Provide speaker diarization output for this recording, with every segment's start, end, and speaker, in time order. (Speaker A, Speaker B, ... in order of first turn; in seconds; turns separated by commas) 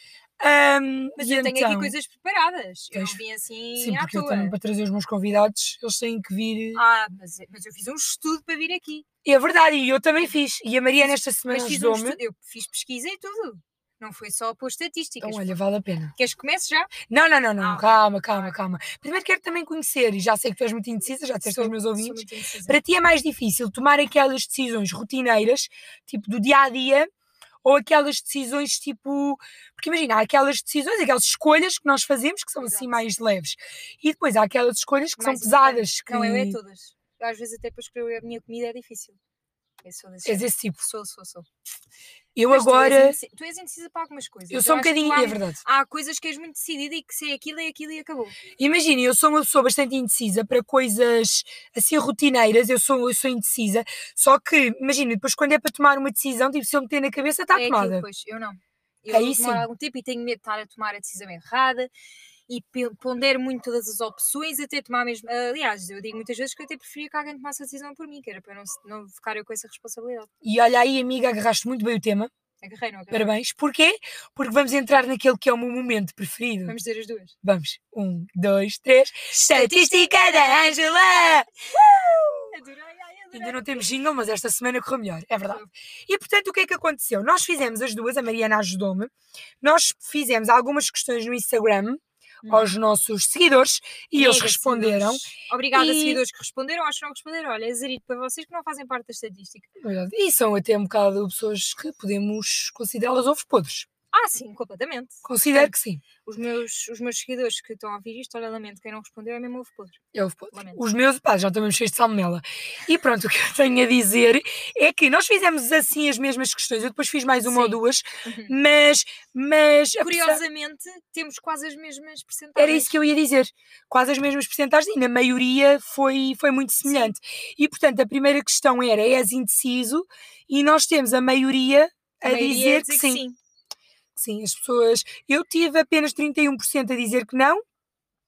Speaker A: 0.4-1.9, Speaker B: 1.2-4.5, Speaker A: 2.9-3.2, Speaker A: 3.8-6.8, Speaker B: 6.8-9.1, Speaker A: 9.2-12.2, Speaker B: 11.0-15.6, Speaker A: 15.2-16.1, Speaker B: 16.2-16.9, Speaker A: 17.1-27.1, Speaker B: 17.6-18.6, Speaker B: 21.4-22.8, Speaker A: 27.6-36.6, Speaker B: 32.6-33.0, Speaker B: 35.2-39.2, Speaker B: 39.8-41.5, Speaker A: 40.2-40.9, Speaker A: 42.4-43.2, Speaker B: 42.5-48.4, Speaker A: 44.5-45.6, Speaker A: 48.6-58.0, Speaker B: 57.5-61.9, Speaker A: 59.1-59.7, Speaker B: 62.5-70.3, Speaker A: 70.4-72.3, Speaker B: 72.6-73.3, Speaker A: 73.1-76.8, Speaker B: 76.7-77.3, Speaker A: 77.4-82.5, Speaker B: 79.3-81.8, Speaker B: 82.5-83.9, Speaker A: 83.3-89.1, Speaker A: 89.6-96.2, Speaker B: 92.5-92.7, Speaker B: 94.1-99.7, Speaker A: 99.8-103.9, Speaker B: 104.1-105.7, Speaker A: 105.2-106.0, Speaker B: 106.2-110.0, Speaker A: 110.1-120.4, Speaker B: 110.5-110.8, Speaker B: 117.5-118.6, Speaker B: 120.0-123.0, Speaker A: 122.6-133.2, Speaker B: 126.8-127.1, Speaker B: 132.2-133.4, Speaker A: 134.2-137.6